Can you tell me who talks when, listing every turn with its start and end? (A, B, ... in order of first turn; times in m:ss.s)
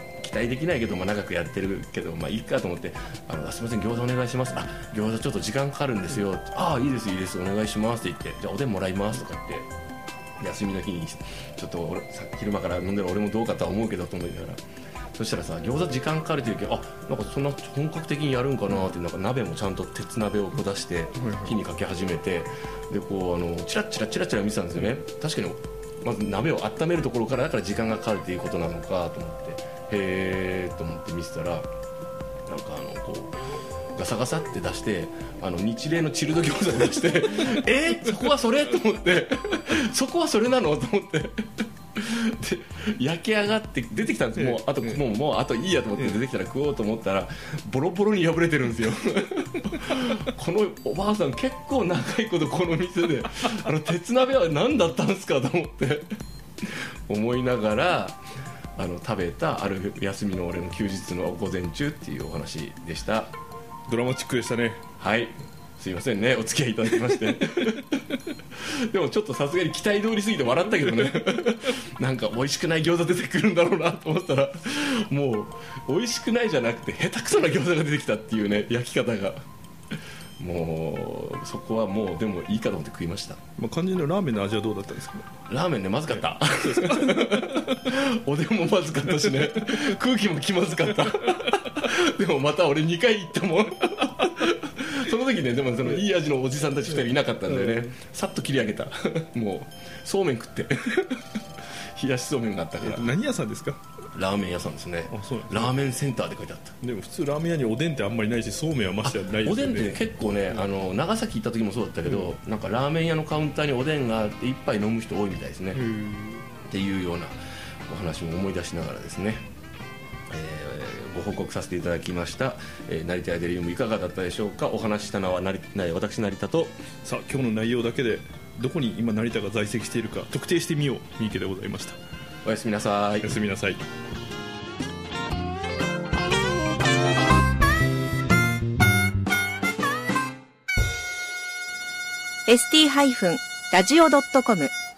0:00.2-0:09.7 A
0:10.4-0:14.6 A
0:15.1-0:31.7 A
0:21.2-0:21.5 B
0:32.5-0:33.4 A
0:33.9-0:56.0 A
0:44.4-0:45.0 B
0:56.6-0:58.2 A
0:58.8-1:03.3 A
1:03.9-1:04.8 B
1:05.0-1:19.5 A
1:07.1-1:07.4 B
1:20.4-1:23.4 A
1:23.6-1:25.3 B
1:25.5-1:41.2 A
1:26.6-1:27.8 B
1:37.5-1:37.9 B
1:41.8-1:43.1 A
1:42.8-1:43.8 B
1:44.1-1:46.8 A
1:45.1-1:45.8 B
1:46.8-1:50.0 B
1:49.0-1:55.8 A
1:52.0-1:52.3 B
1:55.7-1:56.4 B
1:56.7-1:57.4 A
1:57.9-1:59.4 A
2:00.3-2:06.8 A
2:07.0-2:12.0 B
2:12.4-2:13.3 A
2:13.2-2:13.8 B
2:22.5-2:24.7 C